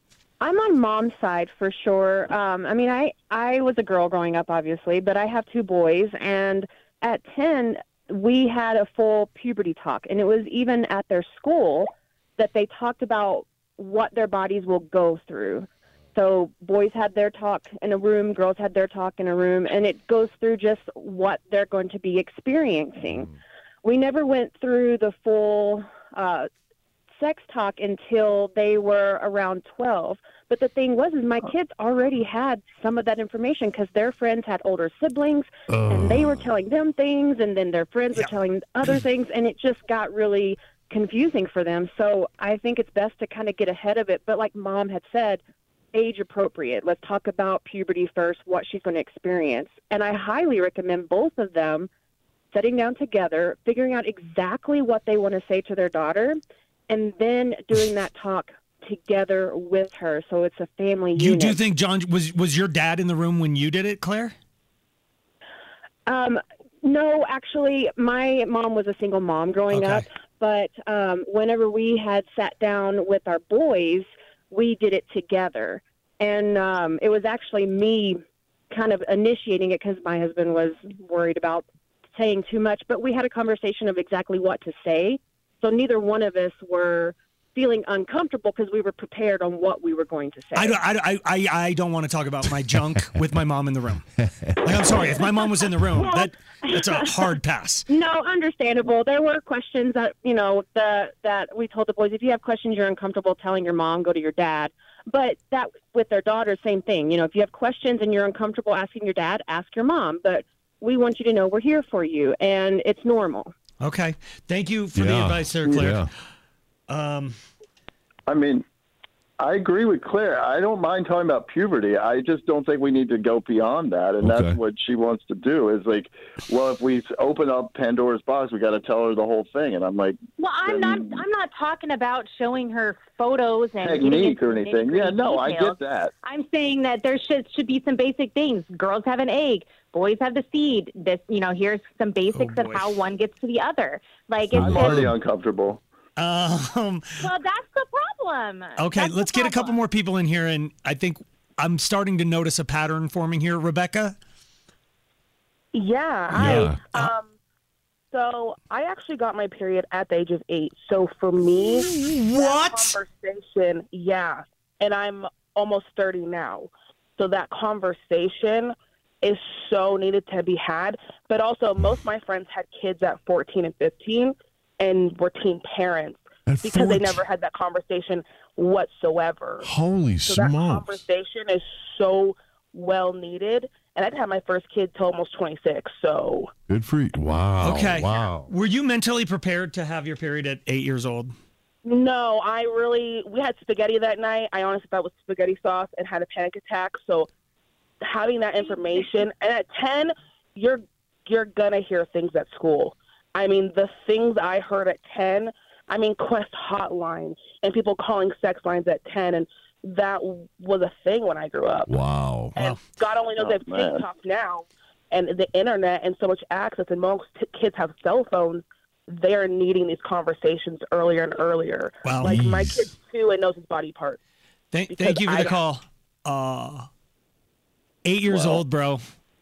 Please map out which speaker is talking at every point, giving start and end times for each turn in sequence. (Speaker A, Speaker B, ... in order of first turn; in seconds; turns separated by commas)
Speaker A: 0.4-23.3, Speaker A: 23.8-26.5, Speaker A: 27.2-45.4, Speaker B: 35.7-36.6, Speaker A: 45.9-51.9, Speaker A: 52.5-61.6, Speaker C: 61.2-64.3, Speaker A: 66.1-90.8, Speaker C: 69.7-70.1, Speaker C: 90.5-94.1, Speaker C: 94.6-97.9, Speaker A: 96.0-96.3, Speaker A: 97.9-113.5, Speaker C: 113.8-116.1, Speaker B: 114.9-116.1, Speaker D: 115.6-115.9, Speaker C: 116.9-117.4, Speaker D: 118.3-118.7, Speaker D: 119.4-131.2, Speaker B: 124.2-124.6, Speaker E: 130.4-145.0, Speaker D: 133.8-136.1, Speaker C: 142.3-143.0, Speaker B: 144.5-145.2, Speaker D: 144.6-145.8, Speaker C: 146.2-147.3, Speaker E: 147.2-149.8, Speaker C: 148.8-154.2, Speaker F: 155.7-157.3, Speaker B: 156.3-156.8, Speaker C: 156.3-157.1, Speaker F: 158.1-179.7, Speaker C: 161.7-163.0, Speaker B: 176.5-177.2, Speaker B: 179.6-181.0, Speaker F: 180.2-186.5, Speaker B: 186.7-188.5, Speaker C: 187.6-191.3, Speaker F: 191.8-197.3, Speaker F: 198.0-212.0, Speaker B: 211.9-212.6, Speaker F: 212.6-224.2, Speaker D: 213.4-214.1, Speaker C: 222.0-222.4, Speaker B: 222.2-222.9, Speaker C: 224.7-226.9, Speaker F: 224.9-225.6, Speaker C: 228.1-229.0, Speaker D: 228.3-228.6